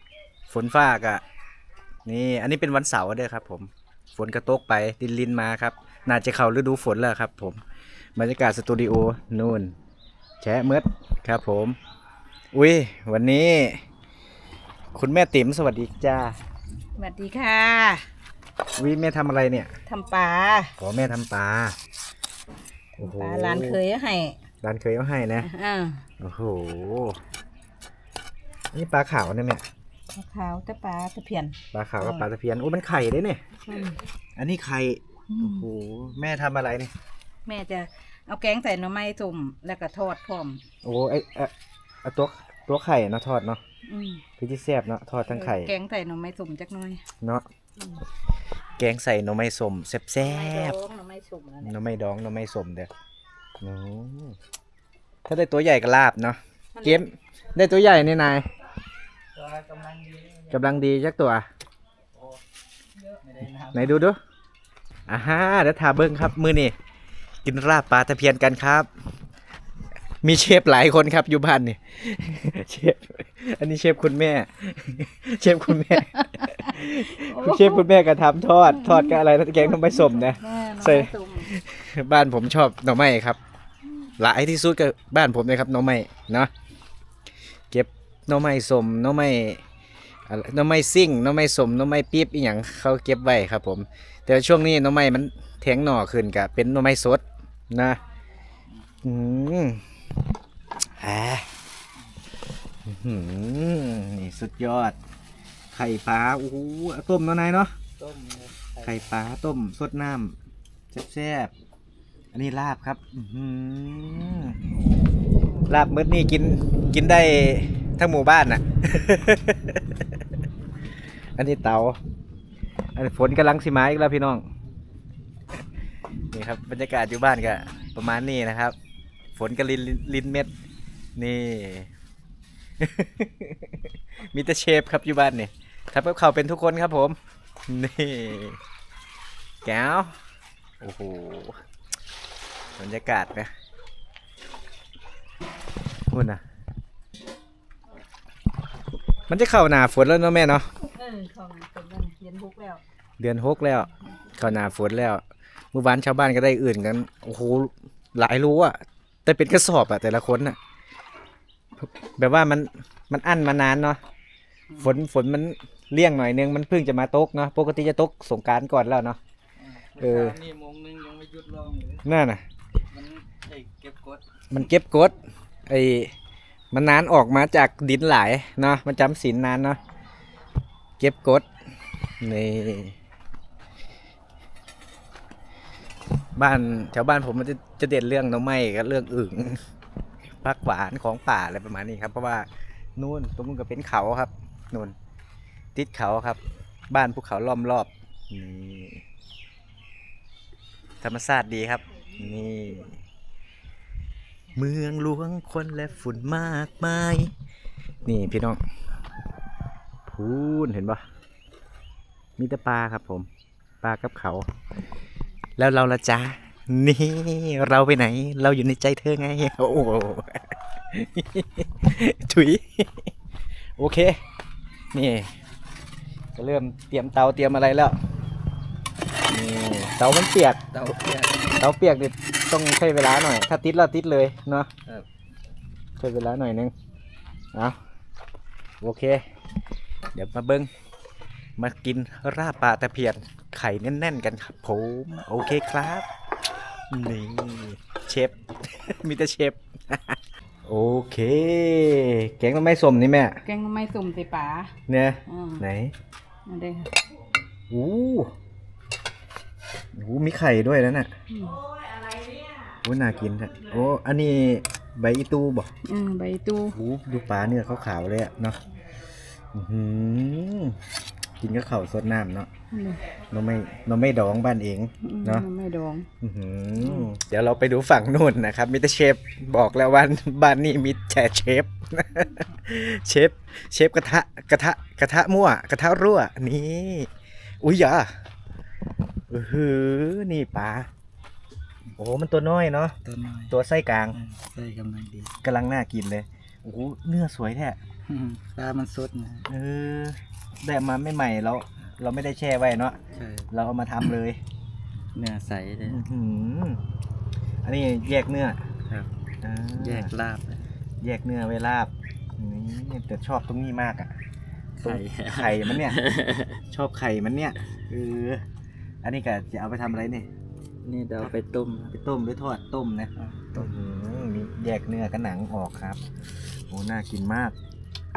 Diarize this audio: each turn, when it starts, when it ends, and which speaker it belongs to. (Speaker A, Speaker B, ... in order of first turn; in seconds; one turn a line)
Speaker A: 0.5-1.2
Speaker A: 2.0-7.6
Speaker A: 8.2-9.8
Speaker A: 10.4-11.8
Speaker A: 12.5-13.8
Speaker A: 14.9-16.4
Speaker B: 17.0-18.1
Speaker A: 18.8-19.8
Speaker B: 19.9-20.8
Speaker A: 20.8-21.8
Speaker B: 23.0-24.4
Speaker A: 23.0-23.8
Speaker A: 24.6-25.5
Speaker B: 25.4-26.1
Speaker A: 26.2-27.2
Speaker A: 28.7-29.7
Speaker B: 30.1-32.3
Speaker A: 31.7-33.4
Speaker B: 33.6-34.0
Speaker A: 34.4-36.9
Speaker B: 35.3-35.7
Speaker B: 37.5-40.6
Speaker A: 40.8-43.6
Speaker B: 43.8-44.2
Speaker A: 44.4-45.7
Speaker B: 45.3-47.0
Speaker A: 47.2-47.5
Speaker B: 47.8-48.0
Speaker A: 48.8-50.8
Speaker B: 50.2-51.7
Speaker A: 51.6-52.9
Speaker A: 53.6-54.4
Speaker A: 55.3-58.5
Speaker B: 56.7-57.0
Speaker C: 59.3-60.5
Speaker A: 60.5-61.5
Speaker C: 63.2-64.0
Speaker A: 63.7-64.2
Speaker A: 65.1-66.8
Speaker A: 67.4-68.9
Speaker A: 70.2-83.4
Speaker B: 76.4-77.9
Speaker B: 78.6-81.5
Speaker A: 84.2-86.5
Speaker A: 87.7-89.6
Speaker A: 90.2-98.0
Speaker A: 99.0-99.9
Speaker A: 101.0-101.5
Speaker A: 102.9-105.0
Speaker A: 105.7-107.8
Speaker C: 108.0-109.0
Speaker A: 108.8-110.4
Speaker A: 110.9-111.5
Speaker A: 112.3-114.6
Speaker A: 115.7-120.2
Speaker A: 121.4-122.0
Speaker A: 123.0-124.5
Speaker A: 126.3-128.8
Speaker A: 129.3-130.5
Speaker A: 131.2-131.9
Speaker A: 132.8-138.6
Speaker A: 139.6-140.2
Speaker A: 140.8-141.6
Speaker A: 142.8-143.5
Speaker A: 146.1-146.4
Speaker A: 149.3-150.7
Speaker B: 150.8-152.8
Speaker A: 153.2-160.6
Speaker A: 161.8-164.0
Speaker A: 164.8-169.2
Speaker C: 169.6-172.1
Speaker A: 170.0-170.4
Speaker A: 172.0-172.4
Speaker C: 172.9-174.2
Speaker A: 174.5-176.1
Speaker A: 176.7-179.8
Speaker A: 181.0-181.5
Speaker A: 182.2-182.9
Speaker A: 186.3-189.6
Speaker A: 190.4-194.9
Speaker A: 195.7-199.0
Speaker A: 201.0-203.0
Speaker A: 204.5-207.3
Speaker A: 208.1-208.6
Speaker A: 210.1-211.0
Speaker A: 212.4-213.3
Speaker A: 213.8-214.5
Speaker A: 215.6-223.1
Speaker A: 223.8-224.2
Speaker A: 224.9-225.3
Speaker A: 226.3-228.0
Speaker A: 229.3-230.9
Speaker C: 230.7-231.5
Speaker A: 231.6-234.7
Speaker A: 236.0-236.7
Speaker A: 238.8-239.3
Speaker A: 240.1-240.7
Speaker A: 241.6-246.1
Speaker A: 246.9-253.4
Speaker B: 253.4-255.7
Speaker A: 254.9-255.9
Speaker B: 256.4-256.9
Speaker A: 257.7-258.3
Speaker A: 259.9-261.1
Speaker B: 261.3-261.7
Speaker A: 262.8-265.7
Speaker B: 265.8-266.8
Speaker A: 266.7-268.6
Speaker A: 269.5-270.8
Speaker A: 271.4-272.5
Speaker B: 272.7-273.0
Speaker A: 273.3-275.5
Speaker B: 275.0-276.1
Speaker A: 276.2-287.1
Speaker A: 287.6-288.2
Speaker A: 289.3-290.9
Speaker A: 292.0-292.9
Speaker C: 293.0-293.5
Speaker A: 293.5-294.2
Speaker C: 294.1-295.3
Speaker A: 295.4-297.8
Speaker C: 298.1-299.5
Speaker A: 299.5-303.0
Speaker C: 303.1-303.5
Speaker A: 303.5-304.4
Speaker C: 305.1-306.0
Speaker A: 305.9-306.8
Speaker A: 307.6-308.7
Speaker A: 309.4-310.1
Speaker C: 309.8-310.6
Speaker A: 311.0-314.1
Speaker C: 314.8-316.6
Speaker A: 314.8-316.0
Speaker A: 316.7-318.5
Speaker A: 319.0-320.3
Speaker C: 320.8-321.9
Speaker A: 321.9-326.0
Speaker C: 323.1-323.7
Speaker A: 326.7-327.6